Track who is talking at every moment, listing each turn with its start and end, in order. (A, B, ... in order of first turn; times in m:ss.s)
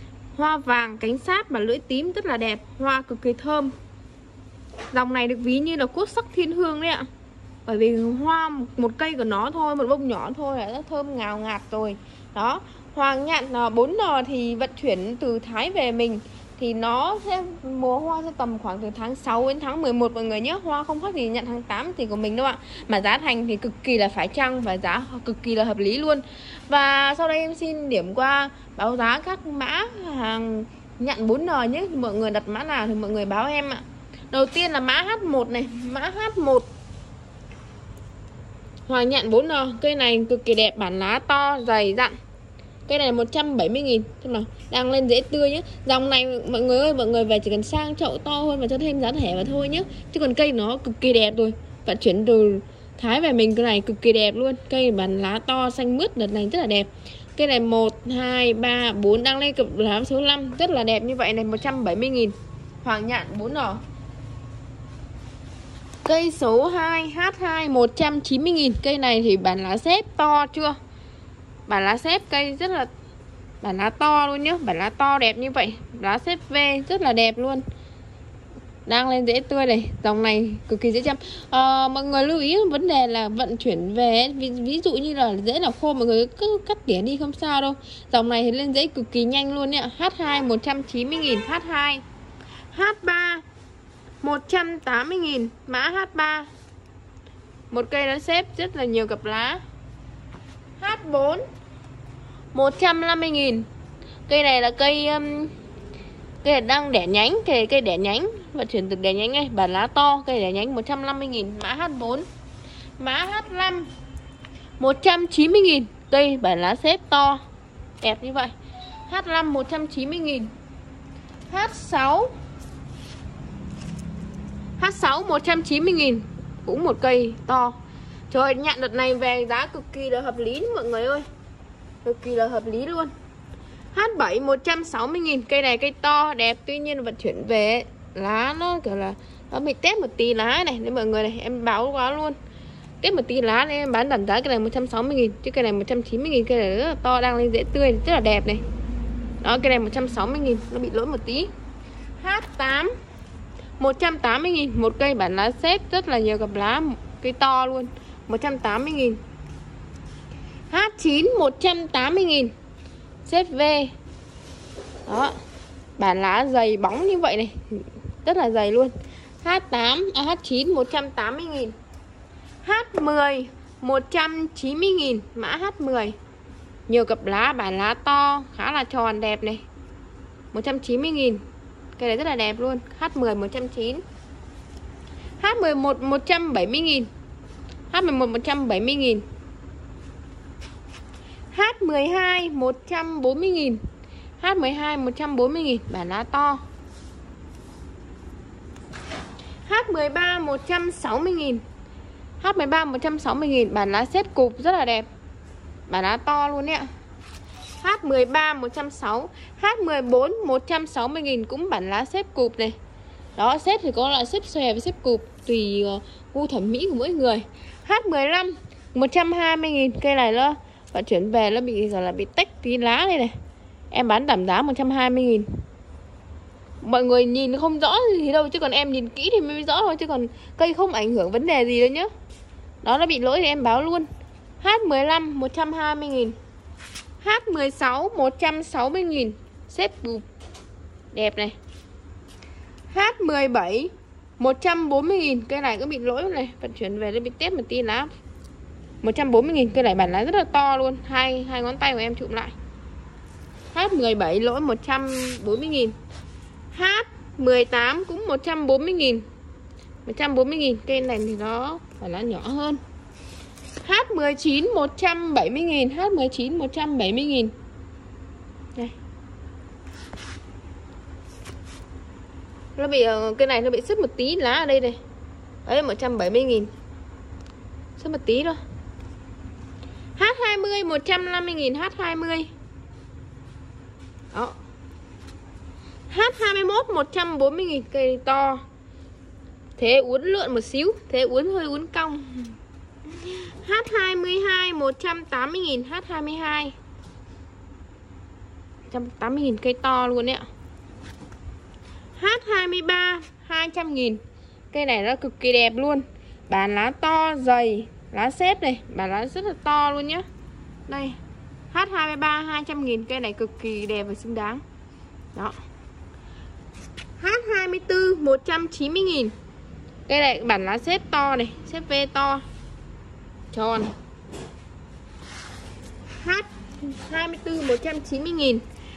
0:00.3-0:03.7 A
0:04.9-0:07.1 A
0:07.6-0:36.7 A
0:38.9-0:42.1 A
0:42.9-1:03.8 A
1:06.0-1:10.8 A
1:11.7-1:12.9 A
1:13.6-1:17.6 A
1:18.8-1:32.0 A
1:32.7-1:33.4 A
1:34.2-1:36.5 A
1:37.7-1:39.6 A
1:40.8-1:41.4 A
1:42.5-1:43.6 A
1:44.3-1:45.5 A
1:46.4-1:52.2 A
1:53.0-1:53.9 A
1:54.8-1:57.4 A
1:58.0-1:58.5 A
1:59.1-2:00.5 A
2:01.5-2:02.3 A
2:04.8-2:07.8 A
2:08.3-2:11.2 A
2:12.0-2:13.1 A
2:13.9-2:22.4 A
2:23.0-2:28.6 A
2:29.4-2:31.5 A
2:32.2-2:32.9 A
2:33.8-2:39.2 A
2:40.7-2:42.5 A
2:43.2-2:43.9 A
2:45.0-2:45.3 A
2:46.0-2:51.7 A
2:52.6-2:56.2 A
2:56.9-2:59.6 A
3:00.5-3:01.4 A
3:02.0-3:04.0 A
3:05.4-3:07.1 A
3:07.9-3:09.2 A
3:11.5-3:13.8 A
3:14.4-3:16.6 A
3:19.6-3:21.6 A
3:22.4-3:25.1 A
3:25.9-3:26.9 A
3:27.8-3:32.8 A
3:33.4-3:43.3 A
3:43.9-3:45.5 A
3:46.8-3:52.1 A
3:52.8-3:54.1 A
3:54.6-3:56.3 A
3:57.2-4:00.2 A
4:01.1-4:01.5 A
4:02.9-4:08.1 A
4:09.0-4:12.5 A
4:13.7-4:15.9 A
4:16.7-4:19.2 A
4:20.0-4:22.8 A
4:23.8-4:27.5 A
4:32.8-4:35.0 A
4:35.6-4:36.7 A
4:38.0-4:38.6 A
4:40.2-4:42.5 A
4:46.1-4:48.6 A
4:49.8-4:52.5 A
4:53.1-4:56.7 A
4:58.9-5:00.5 A
5:02.2-5:04.2 A
5:04.7-5:10.2 A
5:10.9-5:11.2 A
5:11.7-5:14.6 A
5:17.2-5:19.3 A
5:20.1-5:22.4 A
5:23.5-5:23.9 A
5:26.2-5:28.6 A